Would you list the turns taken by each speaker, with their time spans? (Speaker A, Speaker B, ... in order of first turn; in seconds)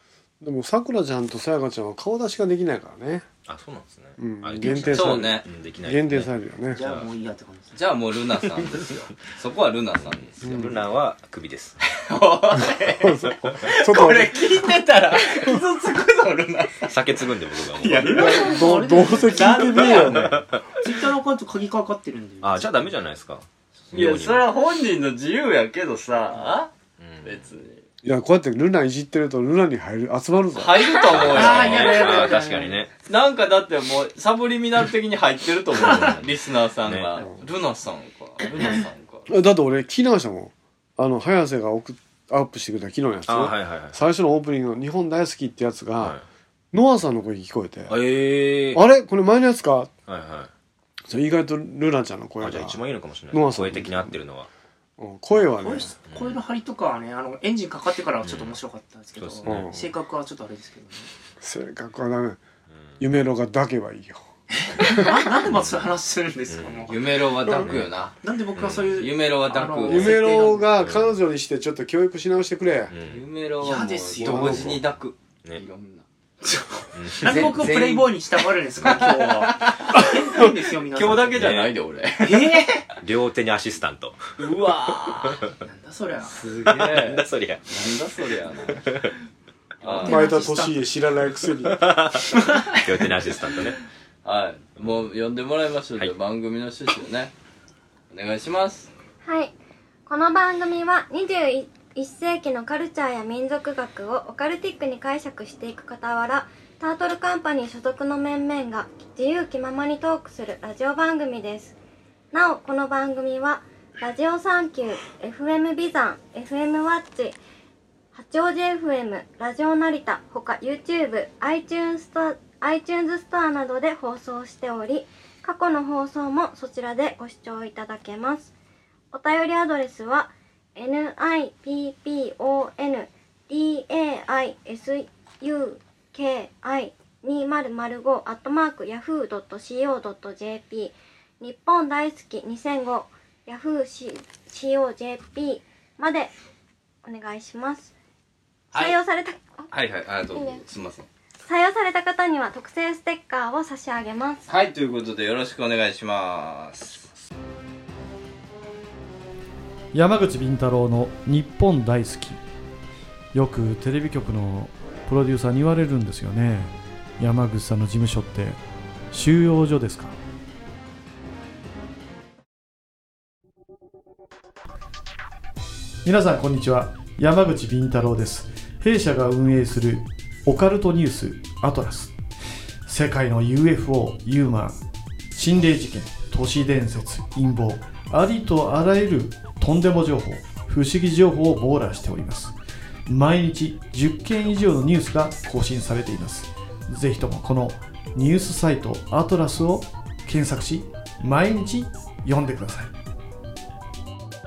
Speaker A: 0.4-3.3, 4.2-6.8, 10.4-10.8, 12.9-14.4, 18.1-20.4, 28.0-30.9, 39.3-46.2, 46.7-48.0, 48.7-49.9, 51.1-52.8, 53.3-54.2, 55.0-55.9, 59.4-59.9, 61.4-62.4, 63.0-64.2, 64.8-65.1, 69.8-72.9, 74.2-74.8, 90.0-92.0
Speaker B: 3.5-7.1, 10.4-11.8, 16.9-18.4, 20.1-20.6, 22.4-24.5, 27.0-27.5, 31.1-32.9, 35.8-36.3, 36.8-37.2, 43.3-44.0, 46.0-46.2, 47.9-48.8, 50.1-50.5, 52.4-54.5, 56.1-56.4, 58.2-58.6, 59.2-59.7, 62.7-63.0, 65.5-65.9, 66.5-66.9, 67.5-67.9, 68.5-69.0, 70.8-71.1, 72.9-73.2, 76.9-77.6, 81.3-81.8, 83.0-84.3, 84.9-85.6, 86.7-87.9, 88.7-89.1, 91.7-93.8
Speaker C: 4.6-5.5, 7.7-10.6, 11.9-20.4, 23.9-26.7, 27.2-27.8, 30.6-32.4, 33.1-39.3, 66.9-68.2, 68.9-70.2, 73.1-76.0, 77.2-82.7, 84.4-85.4, 86.2-88.9, 89.8-90.3, 94.2-97.3, 98.1-98.9, 149.7-151.1, 154.5-157.1
Speaker D: 6.7-7.8, 18.1-20.2, 20.8-23.0, 31.1-32.8, 55.4-61.1, 64.5-67.0, 68.2-70.7, 73.6-74.8, 76.4-81.5, 82.2-82.9, 85.6-86.5, 89.8-90.9, 92.3-93.0
Speaker E: 99.2-99.5, 100.1-111.8, 112.3-117.4, 118.1-128.5, 129.1-146.3, 147.0-147.9, 148.7-149.7, 150.3-150.6, 151.4-154.5
Speaker F: 159.9-162.4, 163.3-168.6, 169.1-170.2, 176.0-182.1, 182.8-184.8, 185.3-192.5, 193.1-202.9